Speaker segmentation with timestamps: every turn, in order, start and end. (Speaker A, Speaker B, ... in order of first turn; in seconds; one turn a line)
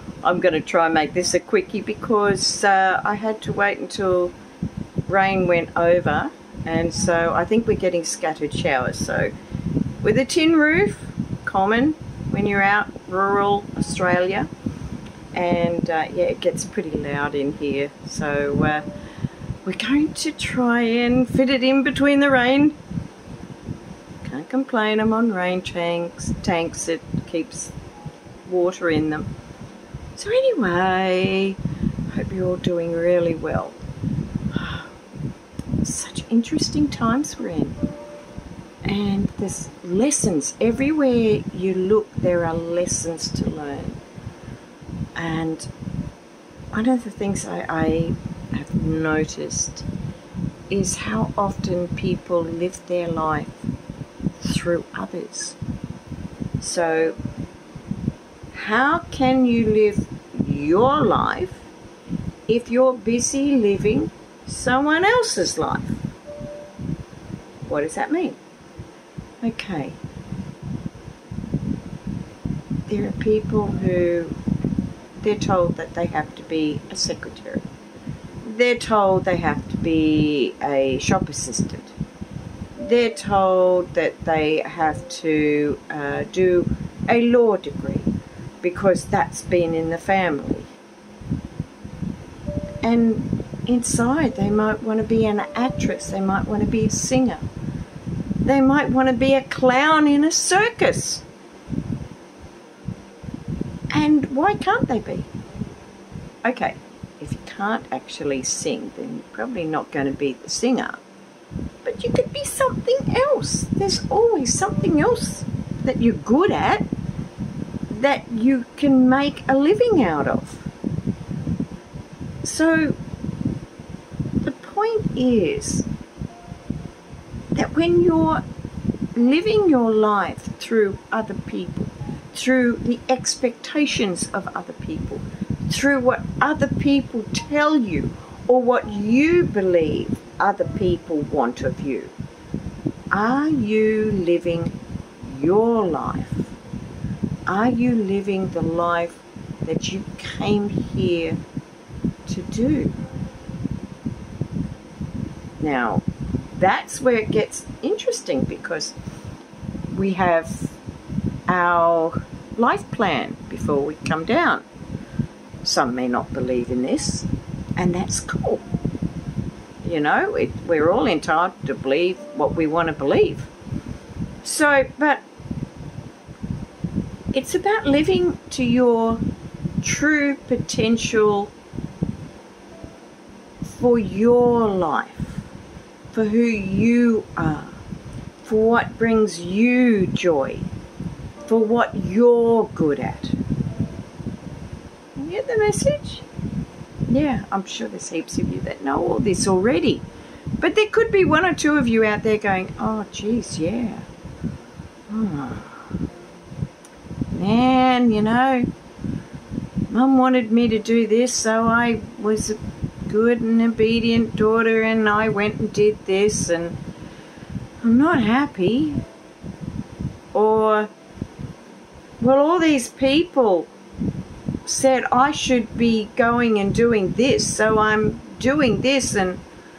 Speaker A: 0.2-4.3
Speaker A: 5.0-9.3
Speaker A: 10.0-14.5
Speaker A: 15.3-18.8
Speaker A: 19.6-22.8
Speaker A: 24.2-27.7
Speaker A: 28.4-29.3
Speaker A: 30.1-31.6
Speaker A: 32.1-33.8
Speaker A: 34.5-34.9
Speaker A: 35.8-37.8
Speaker A: 38.8-44.0
Speaker A: 45.1-45.7
Speaker A: 46.7-49.9
Speaker A: 50.7-53.6
Speaker A: 54.4-55.6
Speaker A: 56.6-57.2
Speaker A: 58.5-61.6
Speaker A: 62.5-66.0
Speaker A: 67.7-68.4
Speaker A: 69.4-70.0
Speaker A: 72.9-74.3
Speaker A: 75.2-77.6
Speaker A: 78.4-81.9
Speaker A: 82.8-88.1
Speaker A: 88.6-90.7
Speaker A: 92.8-97.5
Speaker A: 98.4-101.2
Speaker A: 103.9-105.3
Speaker A: 106.4-111.0
Speaker A: 111.8-116.8
Speaker A: 117.9-120.7
Speaker A: 122.4-123.0
Speaker A: 124.4-125.8
Speaker A: 127.5-128.4
Speaker A: 129.1-142.1
Speaker A: 143.1-146.5
Speaker A: 147.5-151.4
Speaker A: 152.3-153.0
Speaker A: 155.6-158.9
Speaker A: 159.9-160.8
Speaker A: 161.5-164.6
Speaker A: 165.6-168.6
Speaker A: 169.8-173.5
Speaker A: 174.4-175.2
Speaker A: 177.3-179.2
Speaker A: 179.8-181.5
Speaker A: 183.6-185.4
Speaker A: 186.1-187.8
Speaker A: 188.4-190.7
Speaker A: 191.4-193.3
Speaker A: 195.2-196.2
Speaker A: 197.1-200.0
Speaker A: 200.6-204.1
Speaker A: 205.1-205.9
Speaker A: 207.3-208.7
Speaker A: 209.9-216.8
Speaker A: 217.8-219.0
Speaker A: 220.3-220.9
Speaker A: 222.2-223.7
Speaker A: 224.6-229.4